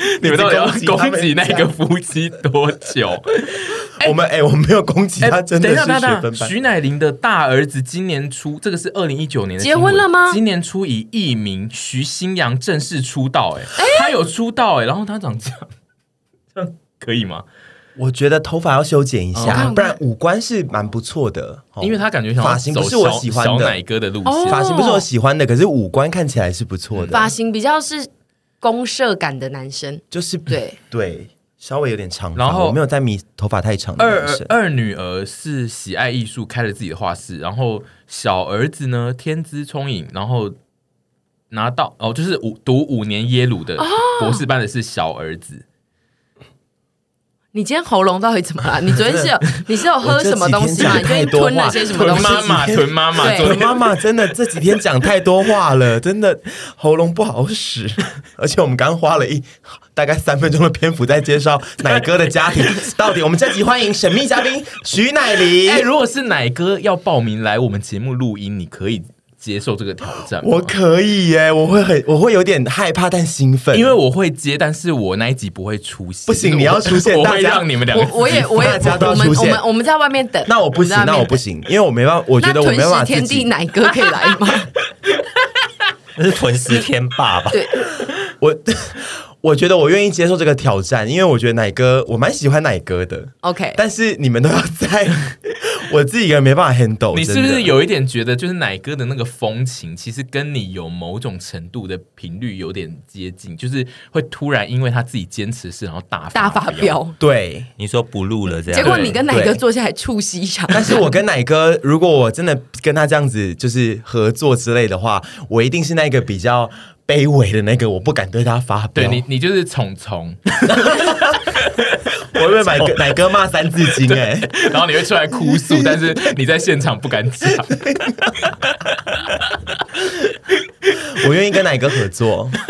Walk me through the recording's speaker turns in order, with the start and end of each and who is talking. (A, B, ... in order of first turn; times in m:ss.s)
0:00.1-0:04.2 A
0:00.2-0:01.7 B
0:04.0-0:06.5 B
0:05.2-0:15.7 A
0:09.6-0:10.4 C
0:13.8-0:14.1 C
0:16.5-0:17.4 A
0:18.0-0:23.8 B
0:19.3-0:19.7 A
0:19.5-0:20.0 C
0:21.8-0:24.6 A
0:24.2-0:25.0 C
0:24.5-0:27.3 B
0:26.9-0:27.3 A
0:27.1-0:28.1 C
0:28.6-0:30.8 C
0:30.1-0:34.5 B
0:32.4-0:32.8 A
0:34.0-0:40.6 A
0:41.5-0:45.6 A
0:43.8-0:44.4 C
0:47.5-0:53.6 C
0:50.0-1:05.9 B
0:51.7-0:53.8 A
1:01.9-1:02.9 A
1:05.4-1:10.7 A
1:10.3-1:13.9 B
1:13.7-1:19.0 A
1:16.3-1:17.7 B
1:17.9-1:21.4 C
1:18.3-1:19.6 B
1:20.4-1:23.5 B
1:22.4-1:24.7 C
1:26.2-1:27.6 D
1:27.5-1:27.8 C
1:28.1-1:37.7 B
1:33.4-1:33.8 C
1:37.1-1:47.0 A
1:46.3-1:47.2 C
1:47.2-1:47.7 B
1:47.8-1:49.2 D
1:48.7-1:51.0 C
1:48.7-1:49.2 A
1:49.3-1:49.6 B
1:50.7-1:59.2 B
1:58.9-2:01.8 A
2:00.6-2:01.4 B
2:02.3-2:04.6 B
2:04.0-2:09.8 A
2:05.5-2:05.8 B
2:07.8-2:08.2 B
2:11.0-2:12.6 B